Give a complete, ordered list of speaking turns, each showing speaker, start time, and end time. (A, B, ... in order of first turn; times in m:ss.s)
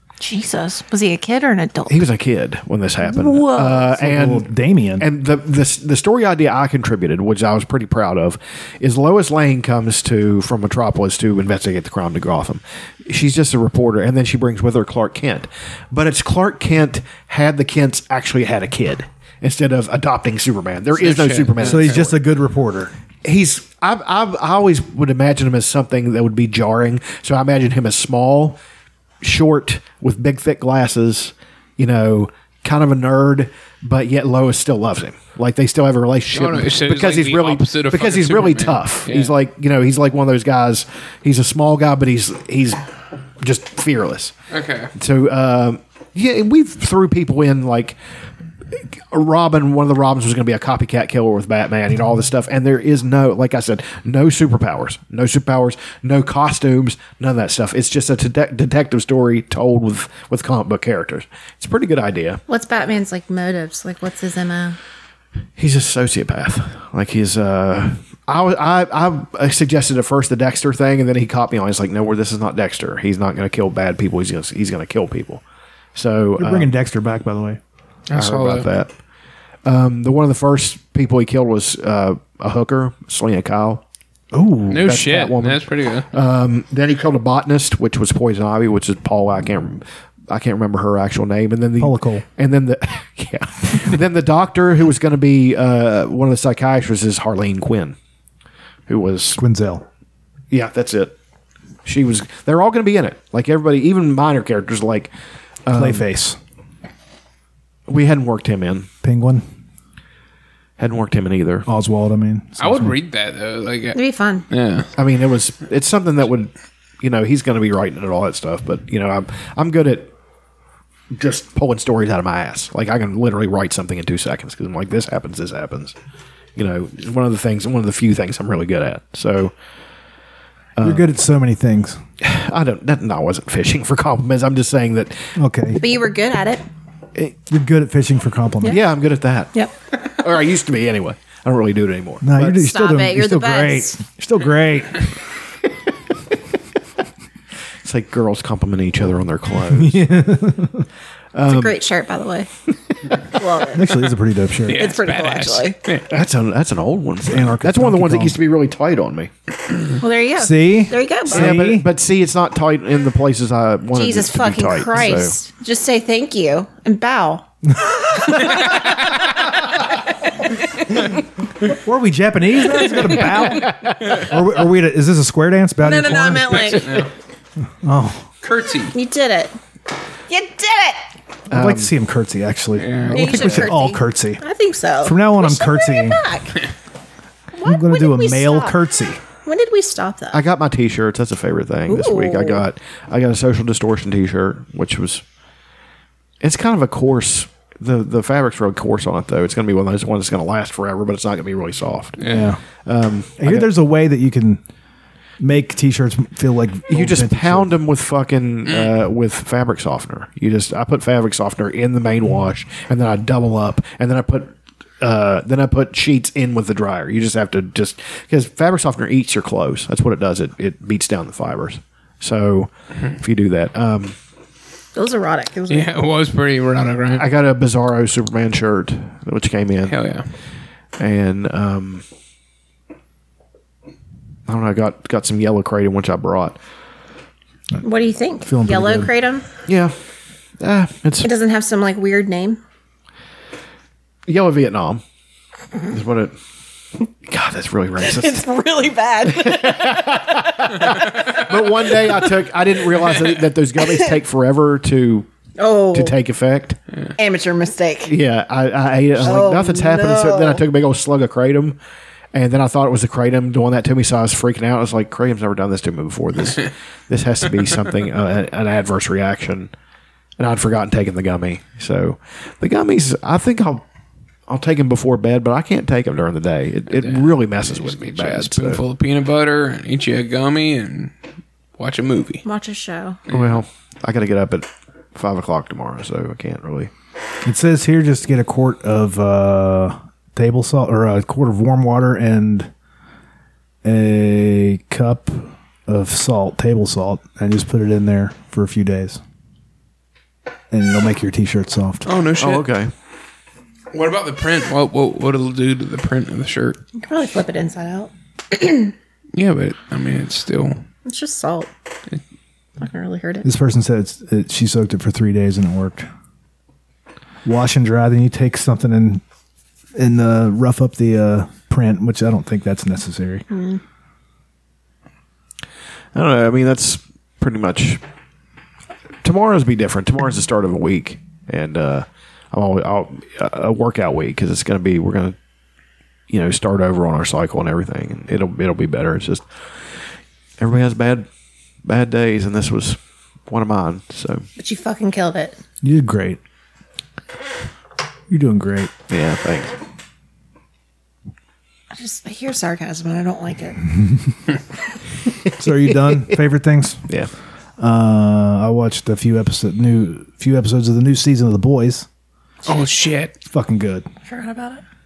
0:00.2-0:02.0 A
0:01.9-0:04.4 B
0:03.1-0:03.8 A
0:03.6-0:05.1 C
0:05.0-0:22.2 B
0:20.9-0:22.0 D
0:21.6-0:22.9 C
0:23.2-0:28.6 B
0:29.2-0:42.8 B
0:36.3-0:39.3 D
0:43.4-0:44.3 B
0:44.5-0:44.9 D
0:44.9-0:48.0 B
0:49.1-1:02.4 B
1:02.5-1:04.8 A
1:05.6-1:15.4 B
1:15.9-1:16.7 B
1:16.4-1:17.6 C
1:18.1-1:18.7 D
1:18.1-1:18.9 B
1:19.6-1:23.8 B
1:24.3-1:24.9 C
1:24.7-1:26.1 D
1:24.7-1:38.0 B
1:31.8-1:32.2 C
1:38.9-1:39.4 B
1:39.4-1:39.8 C
1:40.5-1:41.1 B
1:41.8-1:45.1 B
1:45.6-1:46.0 B
1:45.7-1:46.4 C
1:47.9-1:48.9 B
1:49.0-1:49.4 C
1:50.8-1:51.7 B
1:51.7-1:53.0 C
1:52.6-1:54.9 D
1:53.9-1:54.4 A
1:55.0-2:00.1 B
2:01.1-2:05.9 B
2:06.6-2:09.5 B
2:10.8-2:11.1 B
2:10.8-2:12.0 C
2:12.2-2:15.3 B
2:15.4-2:15.8 C
2:15.8-2:16.6 A
2:17.5-2:18.8 C
2:18.6-2:19.5 B
2:20.2-2:22.7 B
2:22.2-2:25.0 C
2:22.5-2:24.0 A
2:27.8-2:30.1 B
2:29.7-2:30.8 C
2:31.3-2:31.8 B
2:31.5-2:32.5 A
2:33.4-2:33.8 A
2:33.7-2:34.9 C
2:34.6-2:36.1 D
2:34.8-2:35.8 A
2:36.1-2:39.3 B
2:37.2-2:38.4 C
2:40.0-2:41.6 A
2:40.4-2:41.9 C
2:41.3-2:45.3 B
2:43.9-2:48.9 A
2:51.7-2:56.8 C
2:52.8-2:53.2 A
2:55.8-2:56.9 A
2:56.5-2:57.1 D
2:57.8-2:58.3 C
2:58.4-2:58.9 D
2:58.9-2:59.5 A
3:00.3-3:01.0 A
3:01.5-3:01.9 B
3:01.5-3:04.4 C
3:02.8-3:03.7 D
3:03.1-3:06.6 A
3:05.0-3:06.2 C
3:07.5-3:08.8 A
3:07.6-3:09.2 C
3:09.4-3:10.4 A
3:10.3-3:15.2 B
3:11.9-3:12.6 A
3:16.4-3:22.2 B
3:22.2-3:22.5 D
3:22.2-3:22.6 C
3:22.8-3:23.7 B
3:23.4-3:24.6 C
3:25.4-3:27.8 C
3:26.9-3:44.2 B
3:28.6-3:28.9 D
3:44.9-3:46.0 A
3:45.7-3:47.3 D
3:47.1-3:50.0 B
3:49.8-3:50.3 D
3:51.0-3:52.0 B
3:54.5-3:56.6 B
3:57.8-3:59.4 A
3:58.4-3:59.1 C
3:59.7-3:59.9 B
4:00.6-4:01.3 B
4:01.2-4:02.6 A
4:04.3-4:05.0 B
4:05.9-4:06.4 B
4:07.2-4:08.4 B
4:08.0-4:10.9 A
4:09.3-4:15.3 B
4:15.6-4:16.2 A
4:15.9-4:16.8 B
4:17.2-4:18.1 A
4:18.1-4:21.8 B
4:19.2-4:20.6 A
4:22.3-4:29.7 B
4:30.4-4:33.8 B
4:34.5-4:38.8 B
4:36.9-4:41.1 D
4:41.8-4:42.4 D
4:42.4-4:43.2 A
4:43.3-4:43.6 D
4:43.3-4:46.9 B
4:47.4-4:52.7 C
4:53.8-4:59.2 C
5:00.7-5:02.1 C
5:02.0-5:02.7 D
5:02.4-5:02.9 B
5:03.9-5:06.8 D
5:07.0-5:08.9 A
5:09.3-5:10.8 D
5:11.0-5:11.7 A
5:12.8-5:13.5 A
5:13.4-5:16.1 C
5:17.4-5:19.2 C
5:20.0-5:23.4 C
5:23.5-5:23.8 A
5:26.1-5:28.0 B
5:29.2-5:35.4 B
5:36.3-5:39.4 B
5:40.6-5:41.3 B
5:41.8-5:44.4 B
5:44.6-5:45.6 A
5:45.8-5:46.4 C
5:48.3-5:48.9 C
5:49.1-5:49.7 B
5:51.9-5:53.8 A
5:55.6-5:57.0 C
5:57.8-6:02.1 C
6:02.7-6:03.3 D
6:03.5-6:04.0 C
6:04.2-6:04.8 A